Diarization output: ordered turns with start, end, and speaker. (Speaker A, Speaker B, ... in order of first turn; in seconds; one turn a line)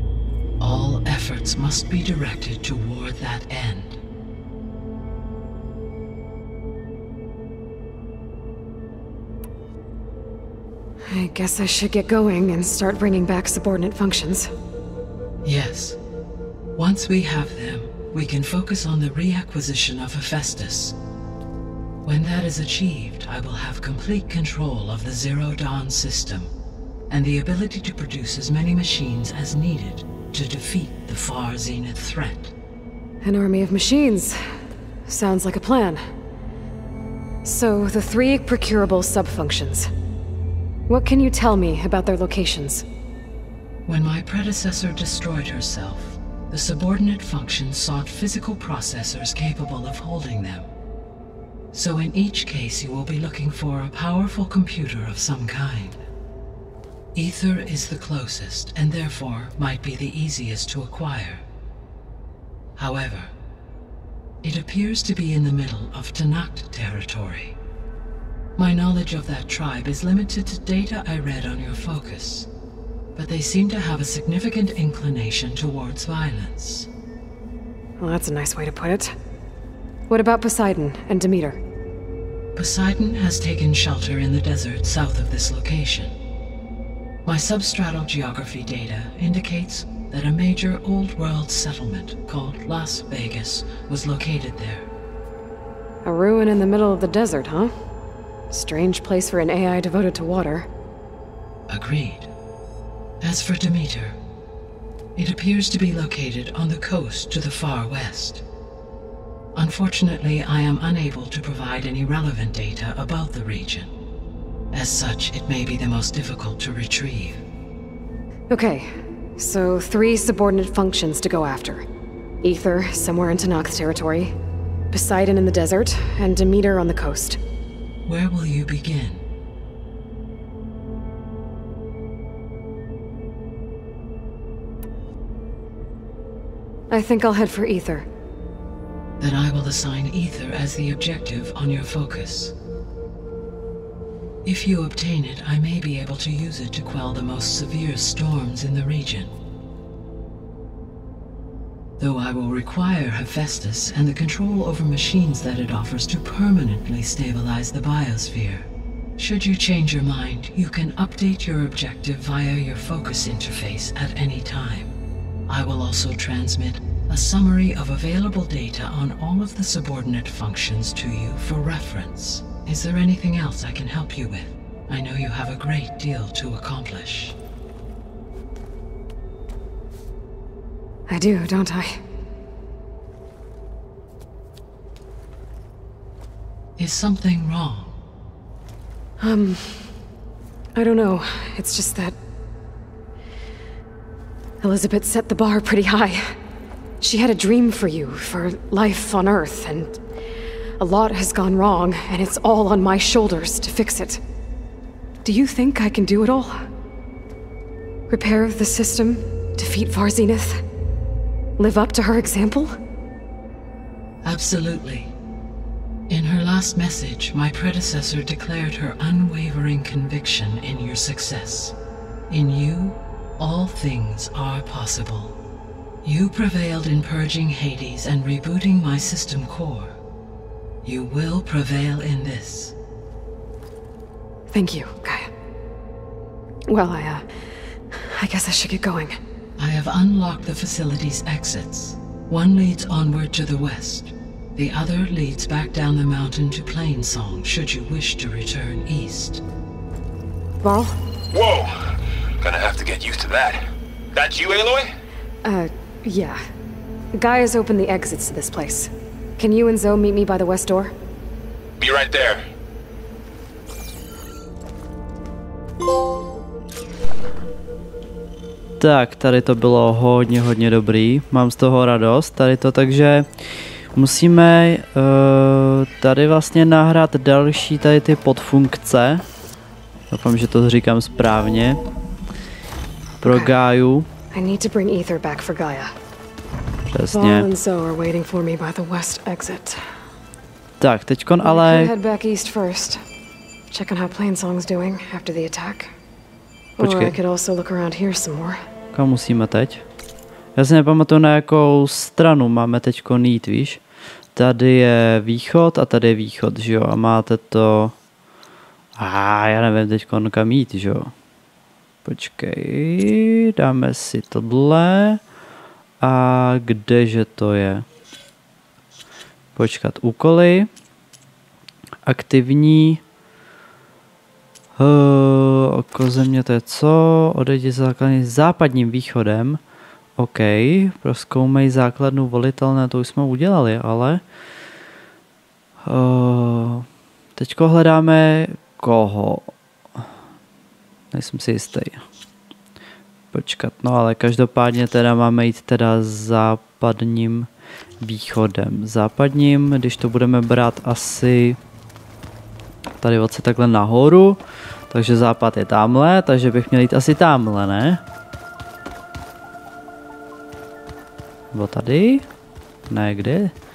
Speaker A: 0.6-4.0
Speaker B: 11.1-14.5
Speaker A: 15.4-16.0
Speaker A: 16.8-20.9
Speaker A: 22.1-26.5
Speaker A: 27.1-32.5
Speaker B: 33.2-34.4
Speaker B: 35.1-36.0
Speaker B: 37.4-39.9
Speaker B: 40.9-42.9
Speaker A: 43.9-50.7
Speaker A: 51.7-56.0
Speaker A: 57.1-61.4
Speaker A: 62.8-63.3
Speaker A: 64.4-67.6
Speaker A: 68.6-72.5
Speaker A: 73.2-76.9
Speaker B: 78.0-79.2
Speaker B: 80.1-81.6
Speaker A: 82.5-86.1
Speaker A: 87.2-94.9
Speaker B: 96.0-97.7
Speaker B: 98.5-100.7
Speaker A: 101.7-102.3
Speaker A: 103.2-104.2
Speaker A: 105.2-108.4
Speaker A: 109.5-113.9
Speaker A: 114.7-117.4
Speaker B: 118.5-121.9
Speaker B: 122.4-124.4
Speaker B: 124.9-127.4
Speaker A: 128.1-129.2
Speaker B: 136.9-138.1
Speaker A: 139.2-142.5
Speaker A: 144.4-149.3
Speaker A: 152.0-164.9
Speaker A: 165.5-177.4
Speaker B: 181.1-182.0
Speaker A: 186.8-188.0
Speaker B: 189.2-189.9
Speaker B: 190.8-192.2
Speaker B: 194.6-196.4
Speaker B: 197.0-200.0
Speaker B: 200.8-204.2
Speaker B: 205.2-206.7
Speaker B: 208.1-210.6
Speaker B: 211.6-212.7
Speaker A: 214.2-215.1
Speaker A: 216.1-221.8
Speaker A: 222.3-225.4
Speaker A: 226.0-229.9
Speaker A: 230.8-232.8
Speaker B: 234.5-235.3
Speaker B: 236.7-237.3
Speaker B: 237.9-239.2
Speaker A: 239.6-249.4
Speaker B: 250.6-251.0
Speaker C: 251.3-253.6
Speaker C: 254.1-254.9
Speaker B: 255.4-256.4
Speaker B: 257.1-260.9
Speaker C: 261.8-262.5
Speaker D: 268.8-273.3
Speaker D: 273.9-279.2
Speaker D: 280.1-281.8
Speaker D: 283.2-284.1
Speaker B: 283.3-283.6
Speaker B: 284.3-285.9
Speaker D: 286.9-287.5
Speaker B: 287.1-289.8
Speaker D: 290.8-291.9
Speaker B: 291.4-293.0
Speaker B: 293.7-295.9
Speaker B: 296.8-298.6
Speaker D: 296.8-297.2
Speaker D: 298.9-299.8
Speaker D: 300.6-303.8
Speaker D: 304.4-307.9
Speaker D: 309.0-311.1
Speaker D: 312.1-315.2
Speaker D: 316.0-317.9
Speaker D: 319.6-320.7
Speaker D: 322.1-323.0
Speaker D: 324.8-329.6
Speaker D: 330.2-334.2
Speaker D: 335.9-336.9
Speaker D: 337.4-339.5
Speaker D: 341.1-342.0
Speaker D: 343.3-347.5
Speaker D: 348.0-351.6
Speaker D: 353.0-358.0
Speaker D: 361.5-362.3
Speaker D: 362.9-363.5